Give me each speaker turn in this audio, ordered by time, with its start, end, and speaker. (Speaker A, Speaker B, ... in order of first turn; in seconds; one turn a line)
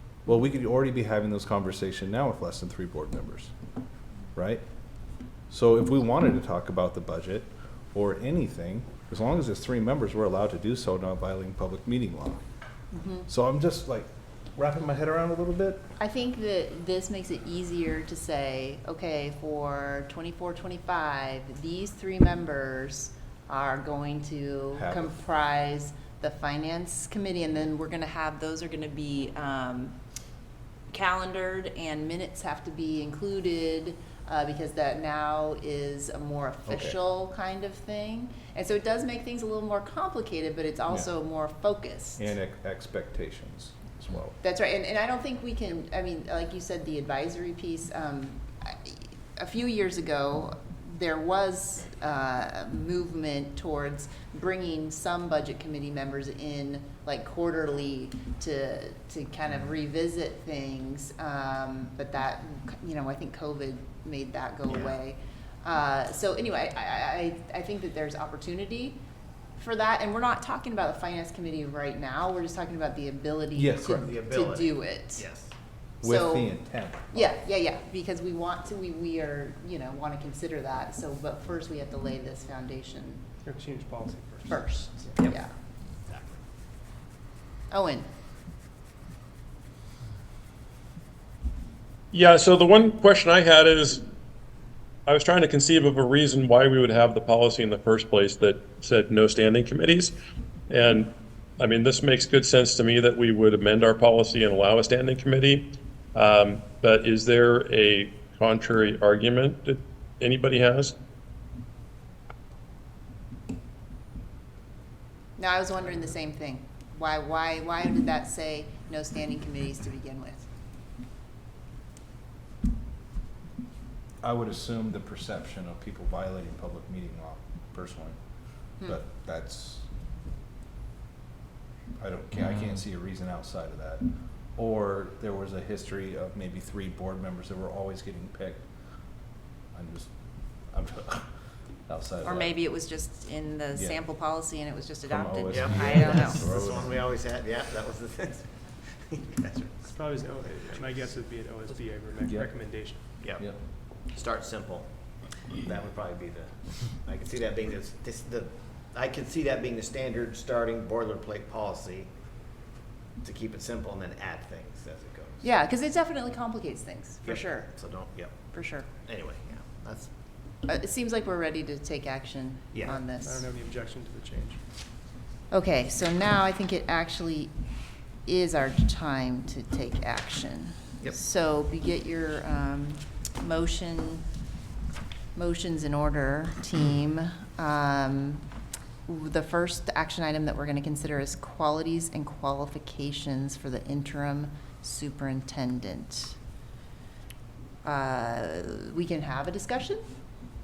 Speaker A: 0.2-3.5
Speaker A: 4.3-4.6
Speaker A: 5.5-12.4
Speaker B: 12.9-13.3
Speaker A: 13.3-15.8
Speaker B: 16.0-30.0
Speaker A: 24.7-25.1
Speaker B: 30.9-42.3
Speaker A: 36.7-37.0
Speaker A: 42.2-44.3
Speaker B: 44.4-69.0
Speaker C: 64.7-65.0
Speaker B: 69.6-75.3
Speaker A: 73.5-74.0
Speaker C: 74.0-75.5
Speaker B: 76.0-83.2
Speaker A: 76.0-77.3
Speaker D: 83.4-84.8
Speaker B: 84.5-85.5
Speaker C: 86.0-86.4
Speaker B: 87.7-88.1
Speaker E: 92.1-94.0
Speaker E: 95.1-100.1
Speaker E: 100.7-110.9
Speaker B: 115.4-120.5
Speaker A: 124.2-128.2
Speaker A: 128.8-129.8
Speaker A: 132.0-134.0
Speaker A: 134.6-138.6
Speaker A: 139.7-140.1
Speaker A: 140.7-141.3
Speaker A: 141.9-142.6
Speaker B: 142.2-146.4
Speaker A: 143.7-144.0
Speaker A: 145.1-147.0
Speaker C: 145.5-148.5
Speaker C: 149.1-150.9
Speaker D: 149.9-153.0
Speaker A: 152.2-153.6
Speaker C: 153.2-153.5
Speaker C: 154.1-154.9
Speaker C: 155.5-162.1
Speaker C: 163.2-165.4
Speaker B: 165.4-167.8
Speaker C: 167.2-170.1
Speaker B: 168.5-168.9
Speaker B: 170.6-173.5
Speaker C: 172.7-173.0
Speaker D: 172.9-174.6
Speaker B: 175.5-177.5
Speaker B: 178.2-184.2
Speaker B: 185.3-188.4
Speaker B: 189.1-196.3
Speaker B: 197.8-200.0